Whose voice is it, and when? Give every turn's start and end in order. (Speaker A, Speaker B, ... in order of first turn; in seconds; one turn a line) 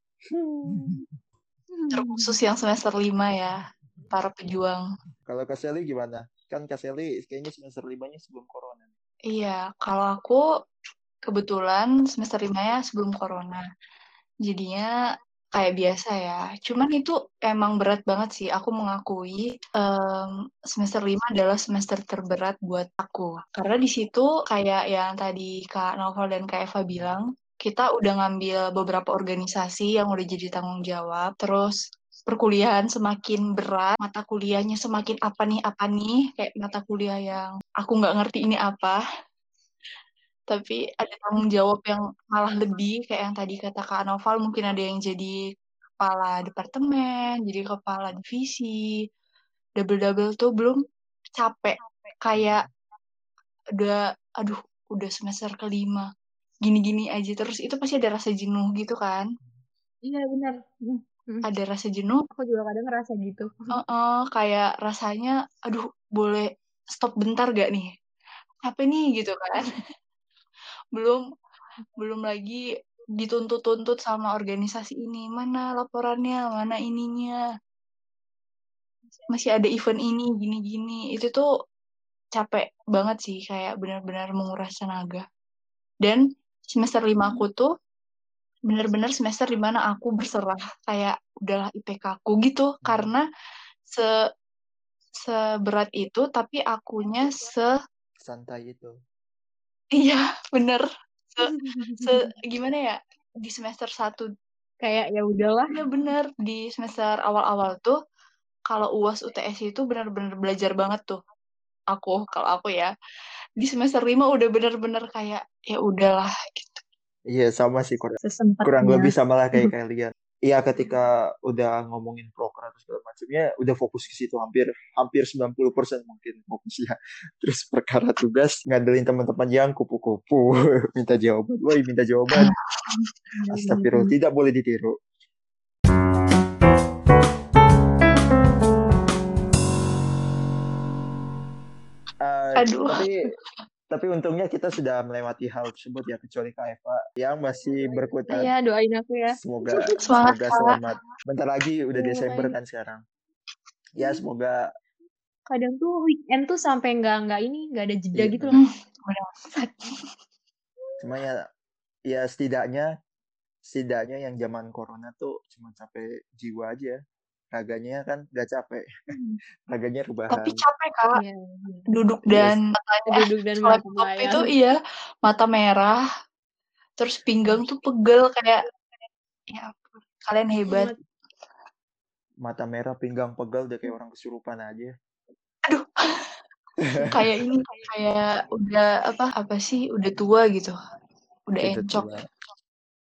Speaker A: 0.2-1.0
Speaker B: 0.7-0.9
Speaker B: 1.7-2.3
Speaker C: 1.9-3.6
Speaker C: 4.1-4.8
Speaker A: 5.3-8.9
Speaker C: 9.3-10.4
Speaker C: 11.3-13.6
Speaker C: 14.4-14.9
Speaker C: 15.5-31.8
Speaker C: 32.3-39.0
Speaker C: 40.5-45.4
Speaker C: 46.0-48.8
Speaker C: 49.8-50.8
Speaker C: 51.4-52.7
Speaker A: 52.3-52.7
Speaker C: 53.8-56.1
Speaker C: 56.6-59.3
Speaker B: 60.0-61.4
Speaker C: 61.5-62.2
Speaker B: 62.4-63.8
Speaker C: 63.7-67.9
Speaker C: 68.6-69.7
Speaker C: 70.9-71.2
Speaker C: 72.0-72.6
Speaker C: 73.2-77.4
Speaker C: 79.3-81.5
Speaker C: 82.3-85.2
Speaker C: 86.0-87.7
Speaker C: 88.7-93.2
Speaker A: 92.8-93.1
Speaker C: 95.1-97.7
Speaker A: 98.2-98.9
Speaker C: 100.0-104.3
Speaker B: 101.4-102.2
Speaker B: 104.8-105.8
Speaker C: 105.7-108.0
Speaker C: 108.7-111.2
Speaker C: 111.9-112.9
Speaker C: 113.6-116.8
Speaker A: 117.3-132.5
Speaker B: 118.2-119.7
Speaker C: 132.3-133.0
Speaker B: 133.4-134.1
Speaker A: 133.5-134.9
Speaker A: 142.2-143.1
Speaker C: 142.6-143.1
Speaker A: 143.9-148.5
Speaker B: 148.3-150.0
Speaker A: 149.3-153.0
Speaker C: 150.0-150.8
Speaker B: 151.9-152.5
Speaker A: 154.0-154.6
Speaker B: 155.5-158.6
Speaker A: 158.1-158.6
Speaker C: 158.5-159.3
Speaker B: 159.5-159.9
Speaker A: 161.0-161.4
Speaker A: 162.1-162.9
Speaker A: 163.6-167.0
Speaker A: 167.5-168.8
Speaker B: 169.1-169.4
Speaker A: 169.7-170.6
Speaker C: 170.3-171.2
Speaker B: 171.2-171.9
Speaker C: 171.9-176.0
Speaker A: 172.3-172.6
Speaker B: 173.1-174.5
Speaker C: 177.0-178.6
Speaker C: 179.5-180.9
Speaker B: 180.7-181.0
Speaker A: 182.4-184.9
Speaker C: 185.7-186.2
Speaker A: 186.8-187.3
Speaker C: 187.1-190.7
Speaker C: 191.5-192.1
Speaker A: 191.6-192.2